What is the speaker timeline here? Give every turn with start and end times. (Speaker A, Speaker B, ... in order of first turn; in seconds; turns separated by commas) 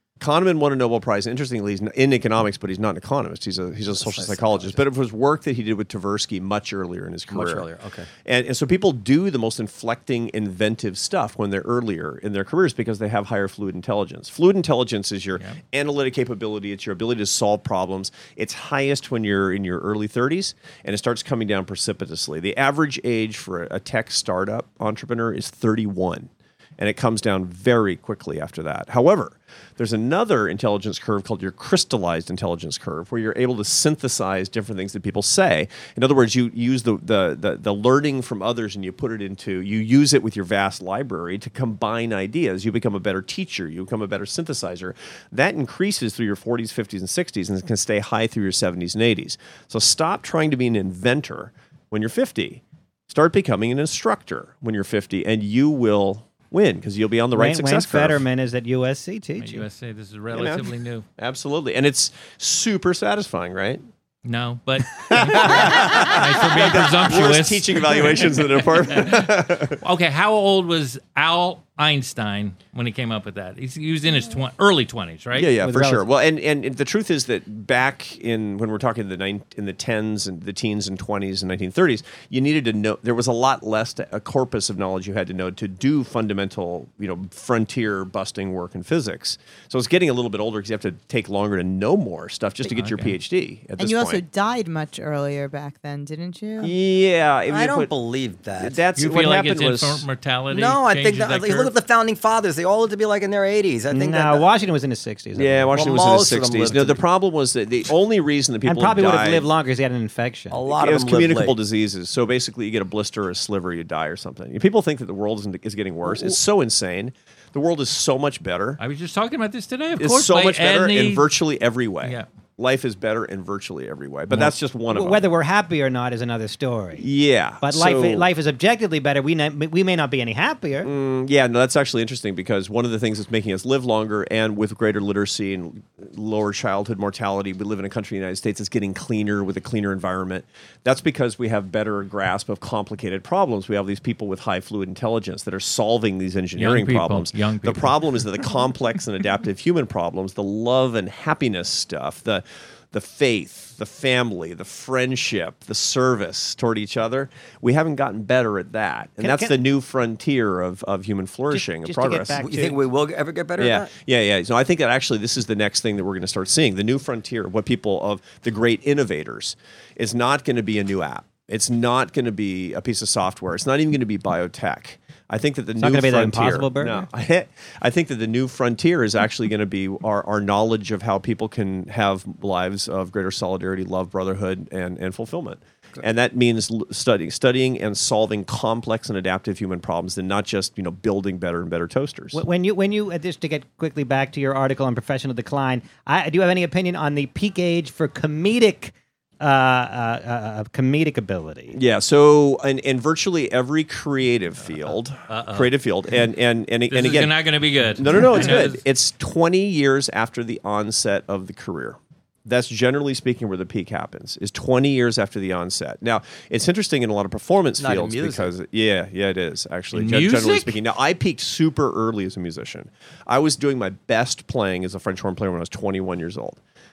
Speaker A: 0.2-7.7, Speaker B: 3.9-4.8, Speaker B: 7.3-8.1, Speaker A: 8.2-58.2, Speaker C: 57.3-59.6, Speaker D: 59.4-61.0, Speaker A: 60.3-63.8, Speaker D: 64.2-69.3, Speaker A: 64.9-69.8, Speaker D: 69.8-75.5, Speaker A: 75.3-94.2, Speaker C: 75.6-76.0, Speaker D: 92.7-93.1, Speaker E: 93.8-96.7, Speaker A: 96.6-97.9, Speaker B: 97.5-98.8, Speaker A: 98.6-100.0, Speaker D: 99.0-101.7, Speaker B: 100.5-104.5, Speaker C: 103.9-105.8, Speaker A: 105.3-109.5, Speaker B: 105.7-107.0, Speaker C: 108.7-110.6, Speaker B: 110.5-111.6, Speaker A: 110.7-118.8, Speaker D: 118.8-121.2, Speaker A: 120.0-125.2, Speaker C: 124.3-127.0, Speaker A: 127.0-128.3, Speaker C: 127.6-130.9, Speaker A: 130.8-162.4, Speaker D: 146.6-147.9, Speaker C: 159.2-159.5, Speaker C: 161.5-162.8, Speaker B: 162.3-163.9, Speaker A: 163.6-192.4, Speaker C: 175.8-177.0, Speaker C: 192.3-201.8, Speaker A: 201.7-226.6, Speaker D: 205.3-205.7, Speaker D: 206.9-208.8, Speaker B: 217.8-218.5, Speaker D: 219.9-220.8